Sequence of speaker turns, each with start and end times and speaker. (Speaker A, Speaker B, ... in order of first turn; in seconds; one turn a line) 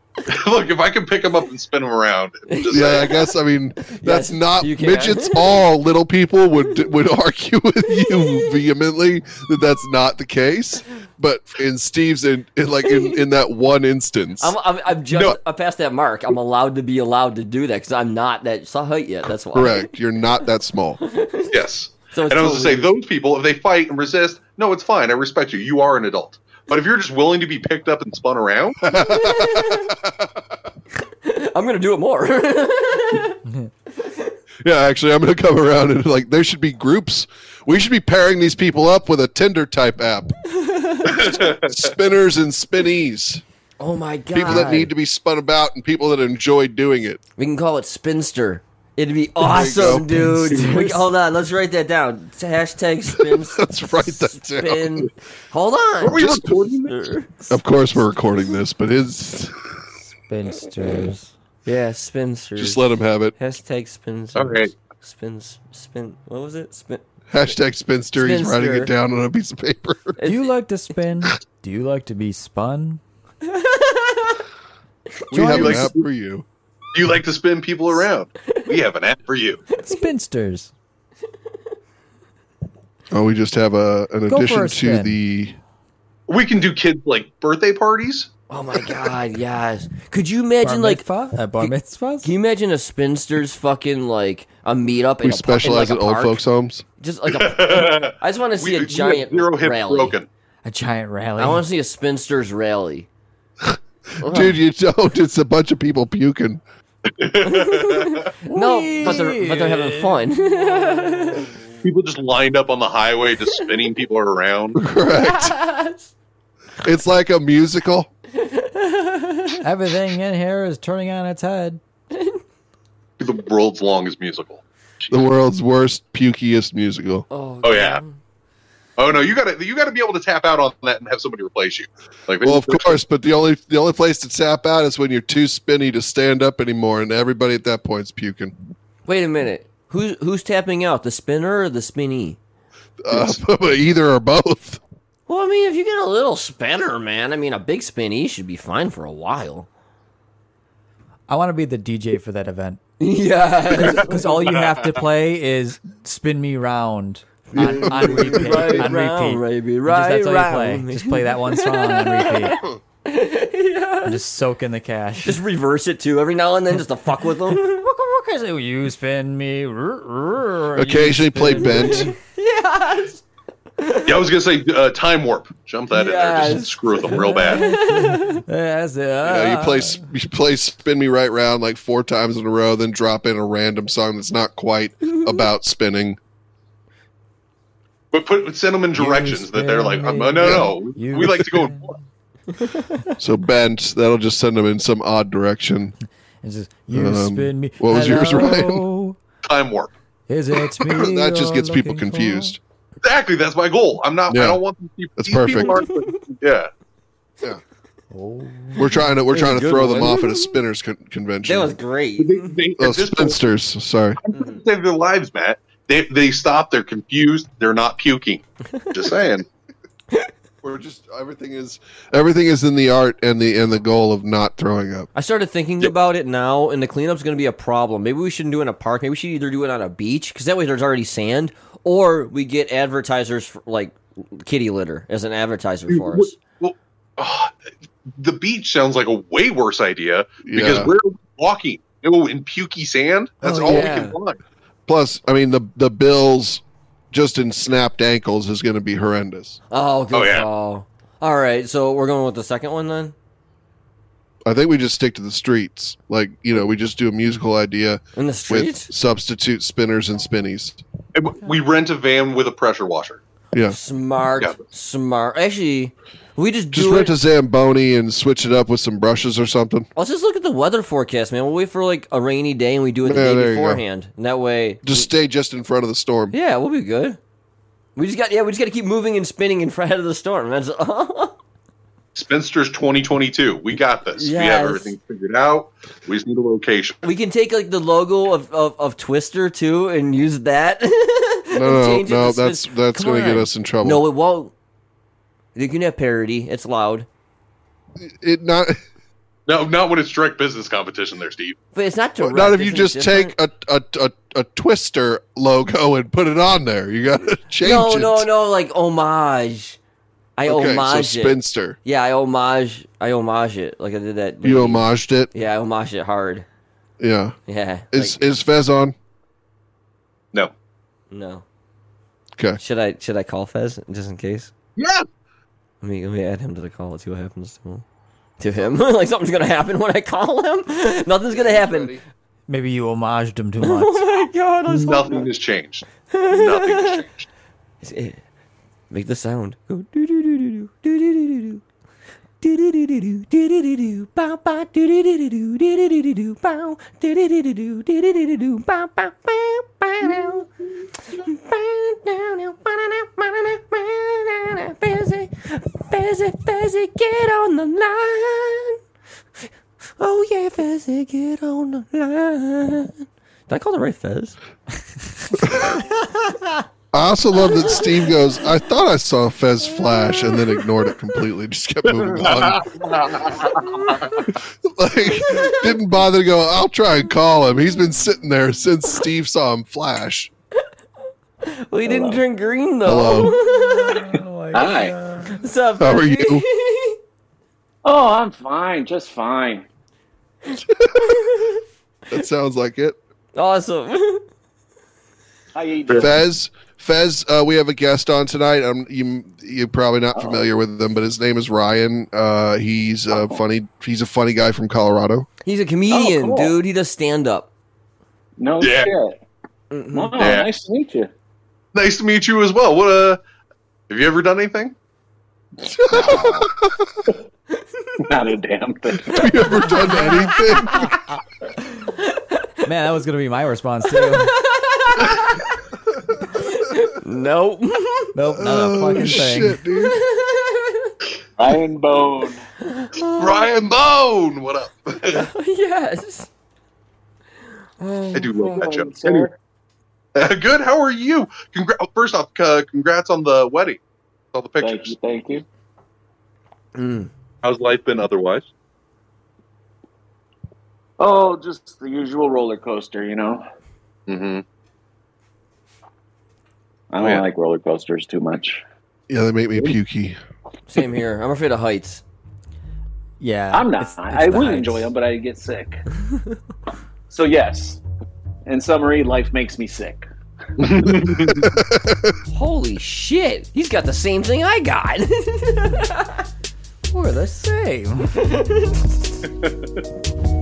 Speaker A: 0.3-3.1
Speaker B: 2.5-3.3
Speaker C: 2.7-14.6
Speaker B: 3.8-5.6
Speaker B: 8.0-8.6
Speaker B: 12.8-13.3
Speaker B: 14.4-19.9
Speaker C: 19.5-21.0
Speaker B: 21.0-22.9
Speaker A: 21.5-28.8
Speaker C: 28.8-30.2
Speaker B: 28.9-29.9
Speaker B: 31.2-33.4
Speaker B: 34.0-34.3
Speaker C: 34.6-40.4
Speaker B: 40.5-41.6
Speaker A: 41.1-41.8
Speaker C: 41.2-43.4
Speaker B: 43.8-44.9
Speaker C: 44.3-47.2
Speaker D: 44.5-44.9
Speaker B: 47.4-57.3
Speaker C: 49.4-50.1
Speaker D: 49.8-51.1
Speaker C: 53.1-55.1
Speaker A: 56.0-57.1
Speaker C: 56.1-56.5
Speaker C: 57.5-59.5
Speaker D: 60.3-61.3
Speaker B: 61.6-62.9
Speaker C: 62.6-63.4
Speaker B: 63.4-67.0
Speaker A: 64.4-64.7
Speaker C: 67.3-70.2
Speaker B: 68.2-68.9
Speaker B: 70.2-70.5
Speaker D: 70.2-73.0
Speaker B: 73.4-74.4
Speaker A: 75.3-76.1
Speaker C: 75.3-76.5
Speaker D: 75.3-75.9
Speaker A: 76.9-79.6
Speaker B: 79.7-80.0
Speaker D: 79.8-80.7
Speaker C: 83.1-85.6
Speaker D: 84.3-85.2
Speaker A: 86.3-88.3
Speaker B: 88.5-91.0
Speaker D: 90.6-92.3
Speaker B: 92.2-96.4
Speaker C: 95.2-96.8
Speaker B: 97.0-100.2
Speaker A: 97.3-100.3
Speaker D: 100.7-101.7
Speaker B: 101.4-103.1
Speaker C: 103.6-106.6
Speaker B: 104.2-104.6
Speaker A: 107.1-108.3
Speaker B: 107.4-111.5
Speaker D: 108.5-111.5
Speaker A: 111.8-114.8
Speaker B: 113.5-113.7
Speaker C: 114.8-115.6
Speaker B: 115.1-116.1
Speaker C: 116.8-118.1
Speaker B: 118.3-119.6
Speaker D: 119.6-121.8
Speaker B: 122.1-122.4
Speaker A: 123.2-125.1
Speaker C: 125.1-127.2
Speaker B: 127.3-128.2
Speaker A: 127.6-128.0
Speaker A: 129.0-133.0
Speaker C: 132.4-138.5
Speaker B: 139.1-142.4
Speaker C: 143.0-144.8
Speaker B: 145.3-149.7
Speaker D: 151.3-152.8
Speaker B: 153.0-154.5
Speaker A: 153.7-154.9
Speaker D: 154.0-162.6
Speaker B: 157.5-164.2
Speaker C: 157.5-158.9
Speaker D: 164.1-165.4
Speaker B: 165.2-167.9
Speaker D: 167.6-172.1
Speaker C: 170.8-172.1
Speaker B: 171.6-173.2
Speaker B: 173.8-174.3
Speaker A: 174.1-177.7
Speaker B: 175.9-178.4
Speaker D: 177.1-180.1
Speaker C: 179.2-186.2
Speaker B: 185.1-185.5
Speaker A: 188.1-192.0
Speaker D: 189.0-192.0
Speaker B: 192.6-193.0
Speaker C: 193.2-195.9
Speaker D: 196.4-199.2
Speaker C: 196.9-198.9
Speaker A: 199.4-199.9
Speaker D: 200.3-202.6
Speaker C: 200.8-202.6
Speaker A: 203.0-206.7
Speaker C: 204.3-204.6
Speaker C: 205.2-205.8
Speaker B: 205.6-206.1
Speaker D: 208.1-209.0
Speaker C: 208.8-211.8
Speaker B: 209.3-210.6
Speaker B: 211.4-212.6
Speaker A: 212.2-213.4
Speaker C: 212.8-214.2
Speaker A: 214.3-219.5
Speaker B: 214.3-214.6
Speaker C: 220.6-225.1
Speaker B: 225.2-236.4
Speaker A: 235.9-237.6
Speaker A: 238.1-244.4
Speaker C: 240.4-240.9
Speaker C: 243.4-244.2
Speaker B: 243.5-244.2
Speaker C: 244.9-249.6
Speaker B: 249.7-253.1
Speaker A: 250.1-250.5
Speaker C: 254.5-260.8
Speaker B: 258.2-258.9
Speaker A: 261.1-263.2
Speaker B: 263.7-267.1
Speaker C: 266.7-269.9
Speaker B: 270.0-275.1
Speaker C: 273.0-273.8
Speaker C: 274.8-276.3
Speaker B: 276.3-277.2
Speaker B: 278.0-281.3
Speaker A: 282.1-287.0
Speaker B: 284.1-284.9
Speaker B: 287.0-294.5
Speaker C: 291.5-294.0
Speaker B: 295.6-297.1
Speaker C: 298.0-298.8
Speaker A: 299.5-301.6
Speaker B: 301.7-303.4
Speaker C: 302.2-308.3
Speaker B: 307.6-309.8
Speaker B: 310.4-316.5
Speaker C: 310.5-311.8
Speaker C: 314.4-315.3
Speaker C: 317.0-317.4
Speaker B: 317.5-318.3
Speaker C: 317.9-318.9
Speaker B: 321.1-321.4
Speaker B: 322.6-324.5
Speaker A: 324.8-325.1
Speaker B: 325.8-327.8
Speaker B: 328.4-332.0
Speaker C: 331.4-332.0
Speaker D: 332.5-334.1
Speaker B: 333.6-335.3
Speaker A: 334.7-337.3
Speaker B: 336.1-337.0
Speaker B: 337.8-338.2
Speaker B: 338.9-341.6
Speaker B: 342.4-350.5
Speaker B: 351.0-358.8
Speaker B: 360.0-364.4
Speaker D: 365.3-366.0
Speaker C: 365.4-365.7
Speaker C: 366.9-372.7
Speaker B: 367.5-368.1
Speaker B: 370.1-370.6
Speaker A: 371.9-374.2
Speaker C: 374.3-380.3
Speaker B: 375.2-375.8
Speaker B: 381.4-384.2
Speaker E: 381.8-382.2
Speaker C: 382.9-383.3
Speaker D: 383.2-385.4
Speaker E: 384.5-385.0
Speaker B: 385.4-387.0
Speaker C: 385.8-386.4
Speaker E: 387.9-389.7
Speaker B: 390.5-391.6
Speaker C: 392.1-393.0
Speaker B: 393.4-394.3
Speaker E: 395.6-396.2
Speaker A: 395.9-396.1
Speaker C: 396.0-405.3
Speaker E: 400.2-400.4
Speaker E: 403.1-403.4
Speaker B: 405.4-407.5
Speaker E: 405.9-406.6
Speaker E: 408.4-409.2
Speaker A: 408.6-408.9
Speaker B: 409.7-410.4
Speaker E: 409.9-411.1
Speaker A: 410.2-410.5
Speaker A: 411.7-413.2
Speaker A: 413.9-414.8
Speaker C: 415.7-416.9
Speaker E: 415.9-416.5
Speaker E: 418.1-419.4
Speaker C: 419.1-420.9
Speaker B: 419.1-420.9
Speaker D: 419.6-420.9
Speaker B: 422.1-422.5
Speaker D: 422.6-424.4
Speaker B: 424.0-425.6
Speaker B: 426.4-428.1
Speaker D: 428.1-429.6
Speaker C: 428.4-430.0
Speaker B: 429.7-431.0
Speaker E: 431.4-432.4
Speaker B: 432.6-433.5
Speaker A: 433.0-435.3
Speaker B: 435.1-436.3
Speaker B: 437.8-438.6
Speaker A: 438.1-439.3
Speaker E: 438.4-439.4
Speaker A: 440.1-443.8
Speaker A: 444.3-444.9
Speaker E: 444.6-445.4
Speaker B: 446.8-447.1
Speaker A: 447.4-448.5
Speaker E: 451.0-453.4
Speaker A: 454.1-454.4
Speaker E: 456.9-458.6
Speaker A: 457.0-457.2
Speaker C: 459.1-460.2
Speaker B: 460.7-462.0
Speaker D: 463.2-464.9
Speaker E: 463.5-465.8
Speaker E: 467.1-467.8
Speaker E: 468.5-470.1
Speaker A: 470.6-471.6
Speaker C: 471.1-472.2
Speaker B: 472.3-476.2
Speaker D: 476.9-478.2
Speaker B: 478.2-478.9